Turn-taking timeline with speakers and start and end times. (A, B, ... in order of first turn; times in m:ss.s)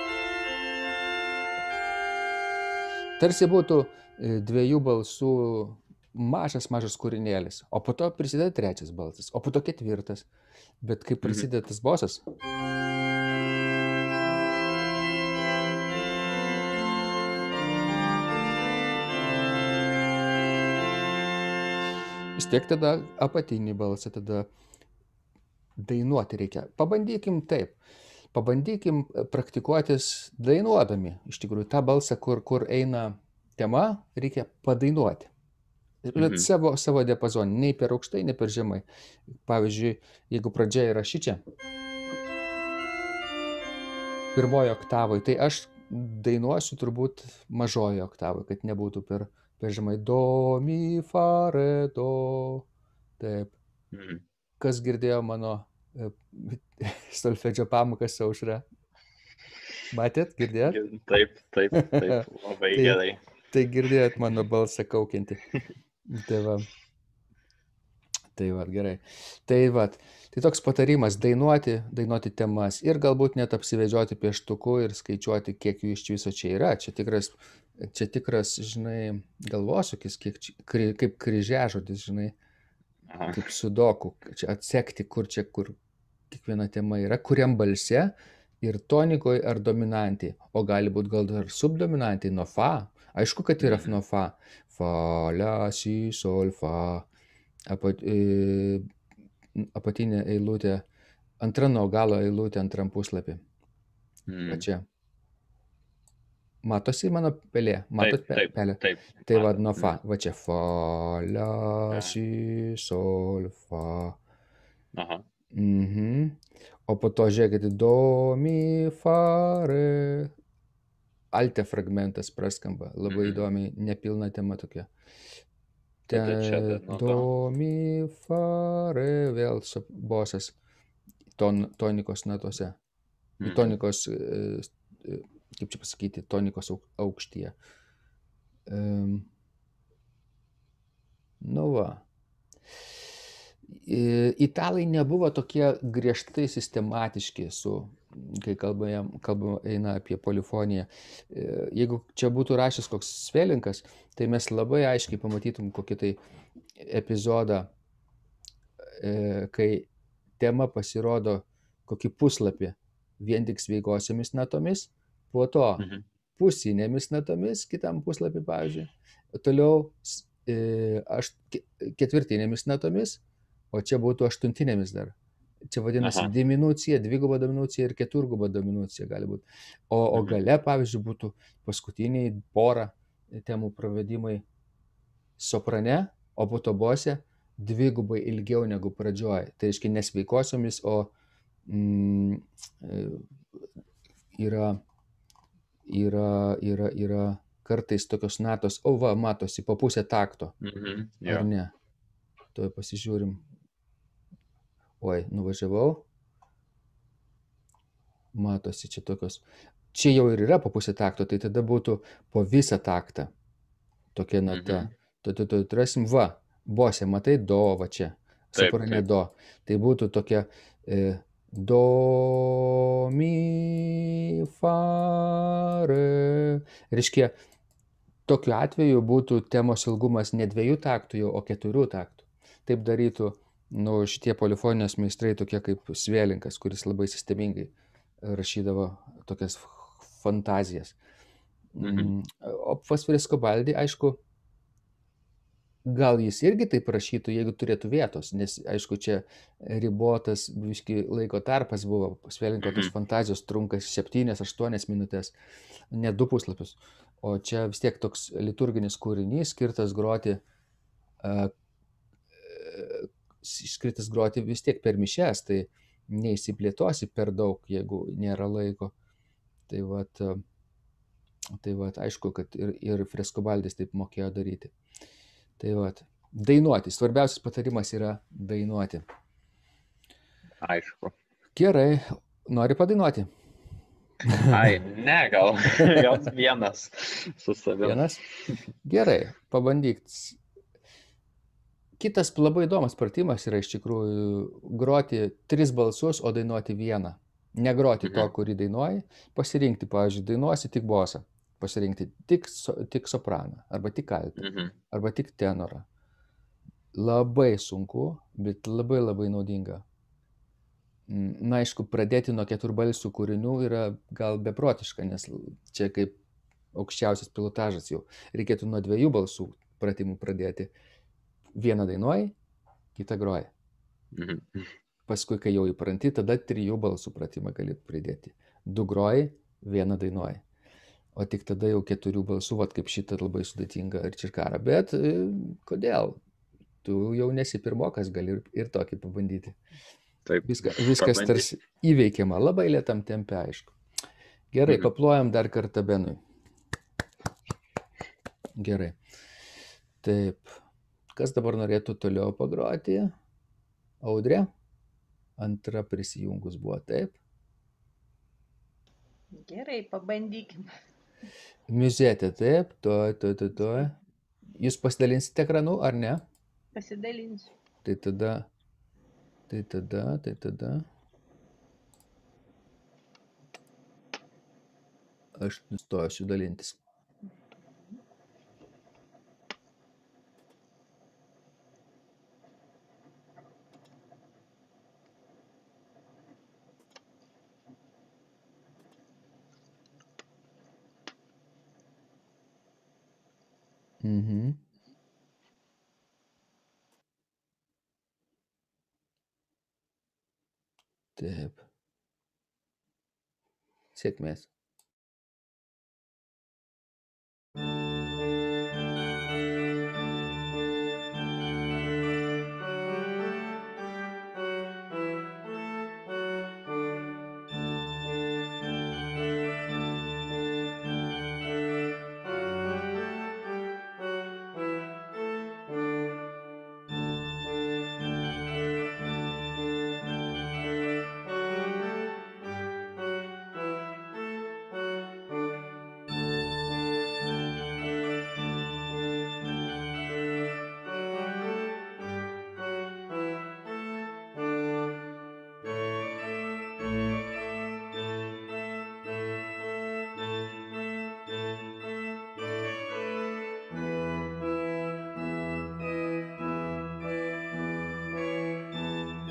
0:03.2-0:10.3 A
0:10.8-0:12.2 A
0:22.4-0:24.5 A
0:25.8-0:27.8 A
0:28.3-0:35.3 A
0:36.0-0:38.8 A
0:36.2-0:36.5 B
0:39.4-0:41.4 A
0:44.3-0:52.7 A
0:53.2-0:53.5 A
0:53.9-0:54.2 B
0:54.6-0:58.6 A
0:59.9-1:00.8 A
1:00.6-1:03.2 B
1:02.7-1:03.0 A
1:03.5-1:05.4 A
1:06.0-1:06.7 A
1:08.3-1:22.3 A
1:23.1-1:23.4 B
1:23.3-1:25.8 A
1:26.3-1:37.0 A
1:33.6-1:34.0 B
1:37.7-1:38.8 A
1:39.5-1:40.8 A
1:41.4-1:43.4 A
1:44.3-1:44.6 B
1:44.5-1:44.8 A
1:46.6-1:54.2 A
1:48.0-1:49.9 B
1:54.9-1:55.3 B
1:55.5-2:00.3 A
2:01.3-2:04.9 A
2:03.1-2:03.4 B
2:06.1-2:10.5 A
2:06.1-2:07.3 B
2:11.3-2:12.8 A
2:13.4-2:13.7 B
2:13.4-2:17.5 A
2:18.7-2:19.3 A
2:21.4-2:22.0 A
2:23.6-2:36.2 A
2:36.8-2:37.7 A
2:39.0-2:39.9 A
2:40.4-2:53.2 A
2:45.8-2:46.0 B
2:53.7-2:55.1 A
2:55.7-3:04.4 A
2:56.0-2:56.3 B
3:00.1-3:00.4 B
3:05.4-3:11.1 A
3:11.7-3:13.6 A
3:14.3-3:14.8 A
3:15.9-3:20.5 A
3:20.6-3:21.5 B
3:21.2-3:21.7 A
3:22.5-3:23.4 A
3:25.0-3:26.0 A
3:28.3-3:33.3 A
3:34.1-3:47.3 A
3:34.5-3:34.9 B
3:38.6-3:39.0 B
3:48.3-4:01.0 A
4:01.7-4:04.2 A
4:01.8-4:02.1 B
4:05.8-4:15.3 A
4:12.6-4:12.9 B
4:15.9-4:20.4 A
4:21.2-4:21.5 A
4:22.4-4:28.9 A
4:29.7-4:30.4 A
4:31.6-4:34.7 A
4:35.6-4:39.0 A
4:40.6-4:41.1 B
4:41.6-4:43.3 A
4:44.3-4:44.6 A
4:44.4-4:48.6 B
4:47.8-4:48.2 A
4:48.8-4:50.4 A
4:52.0-5:05.8 A
4:58.0-4:58.3 B
5:04.4-5:04.8 B
5:06.9-5:09.8 A
5:11.1-5:16.2 A
5:16.7-5:20.7 A
5:21.5-5:22.3 A
5:22.9-5:23.5 A
5:24.1-5:24.7 B
5:25.1-5:30.4 A
5:31.1-5:36.2 A
5:36.8-5:39.6 A
5:40.2-5:41.5 B
5:40.4-5:43.8 A
5:44.5-5:46.2 A
5:48.6-5:49.0 A
5:50.0-5:50.5 A
5:51.1-5:53.1 A
5:54.0-5:54.5 A
5:55.4-5:57.2 A
5:59.3-6:00.7 C
6:01.7-6:04.0 A
6:04.6-6:06.2 A
6:06.7-6:07.5 C
6:07.8-6:08.5 A
6:09.5-6:10.8 A
6:15.4-6:16.8 A
6:17.6-6:18.0 C
6:34.0-6:34.6 A
6:41.2-6:41.6 A
6:43.9-6:44.5 A